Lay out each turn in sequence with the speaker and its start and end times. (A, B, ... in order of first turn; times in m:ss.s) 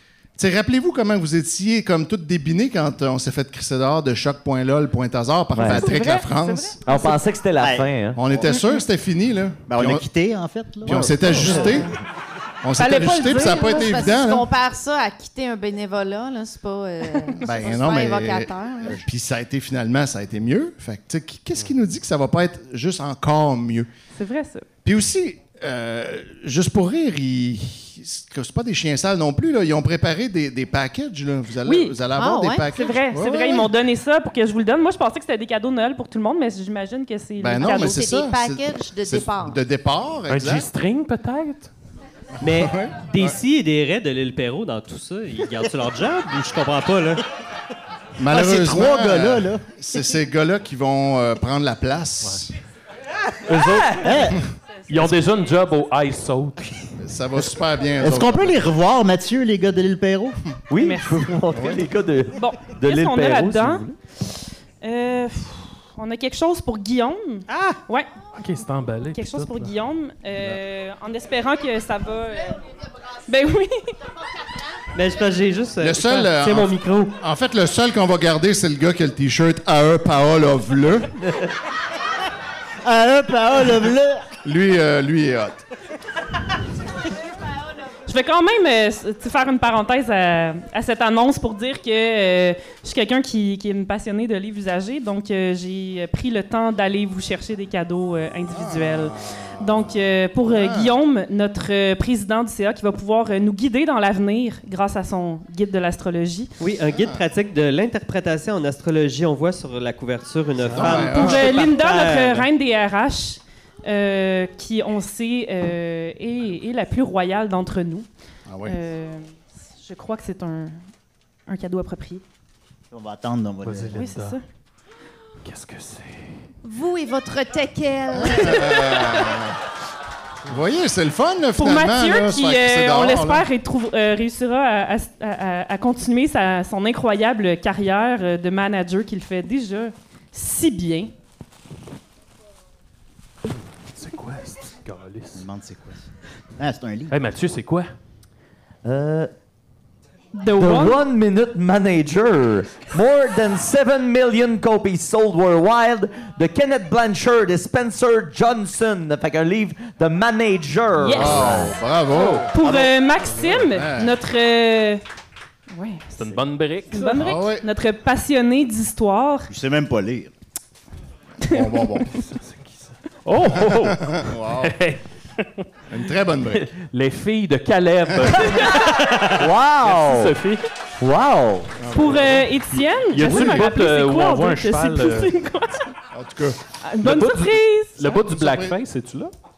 0:00.4-0:06.8 A
0:05.5-0:05.9 B
0:05.7-0:07.2 C
0:06.8-0:08.2 B
0:07.6-0:08.4 D
0:08.2-0:10.0 A
0:09.7-0:11.8 D
0:10.8-0:11.9 A
0:11.4-0:11.8 C
0:12.6-0:14.5 A
0:12.8-0:14.0 C
0:12.9-0:19.0 E
0:17.4-0:23.9 A
0:24.2-0:24.7 C
0:24.8-0:33.7 A
0:31.6-0:32.0 C
0:32.1-0:32.7 E
0:32.7-0:38.0 C
0:37.4-0:40.6 A
0:37.6-0:39.6 E
0:40.3-0:41.7 F
0:42.4-0:43.4 A
0:42.4-0:47.2 G
0:48.2-0:52.5 A
0:48.3-0:49.6 D
0:53.5-0:54.3 F
0:54.0-0:54.4 D
0:54.9-0:56.7 F
0:57.0-0:58.7 A
0:58.0-1:00.4 D
1:00.7-1:03.9 B
1:00.7-1:03.8 C
1:04.8-1:08.1 C
1:07.5-1:07.8 G
1:08.4-1:09.7 F
1:09.1-1:12.6 C
1:13.3-1:14.0 C
1:14.9-1:17.2 G
1:15.8-1:21.1 A
1:22.8-1:24.3 D
1:24.4-1:25.6 A
1:28.1-1:46.5 C
1:38.5-1:39.9 A
1:40.5-1:41.0 A
1:46.6-1:52.5 G
1:46.9-1:47.2 A
1:50.7-1:51.6 A
1:50.8-1:58.1 C
1:58.5-1:58.8 A
1:58.6-2:00.8 C
2:01.5-2:02.2 C
2:02.9-2:04.0 D
2:03.6-2:04.4 F
2:03.9-2:04.4 C
2:05.4-2:06.3 F
2:06.6-2:08.9 E
2:08.1-2:09.6 A
2:10.5-2:13.4 A
2:11.6-2:21.1 C
2:24.0-2:25.4 F
2:25.4-2:26.1 D
2:26.6-2:27.1 D
2:27.1-2:27.9 F
2:28.8-2:29.3 B
2:30.4-2:31.0 C
2:30.5-2:41.7 B
2:41.0-2:41.7 C
2:41.1-2:42.8 A
2:42.1-2:42.5 F
2:42.5-2:45.0 C
2:43.3-2:44.2 A
2:45.7-2:46.3 C
2:46.2-2:47.3 F
2:46.9-2:49.5 C
2:47.2-2:47.7 A
2:49.5-2:50.3 D
2:51.4-2:52.1 A
2:51.4-2:52.1 C
2:52.1-2:55.6 F
2:53.5-2:54.7 A
2:55.9-2:56.7 A
2:56.5-2:59.0 F
2:58.5-2:59.0 C
2:59.3-3:00.4 B
2:59.8-3:00.6 F
3:01.0-3:01.8 B
3:01.8-3:02.5 A
3:01.9-3:05.9 C
3:03.1-3:05.3 F
3:03.2-3:03.6 A
3:06.1-3:06.6 A
3:06.8-3:08.2 C
3:07.0-3:09.3 F
3:08.3-3:08.8 A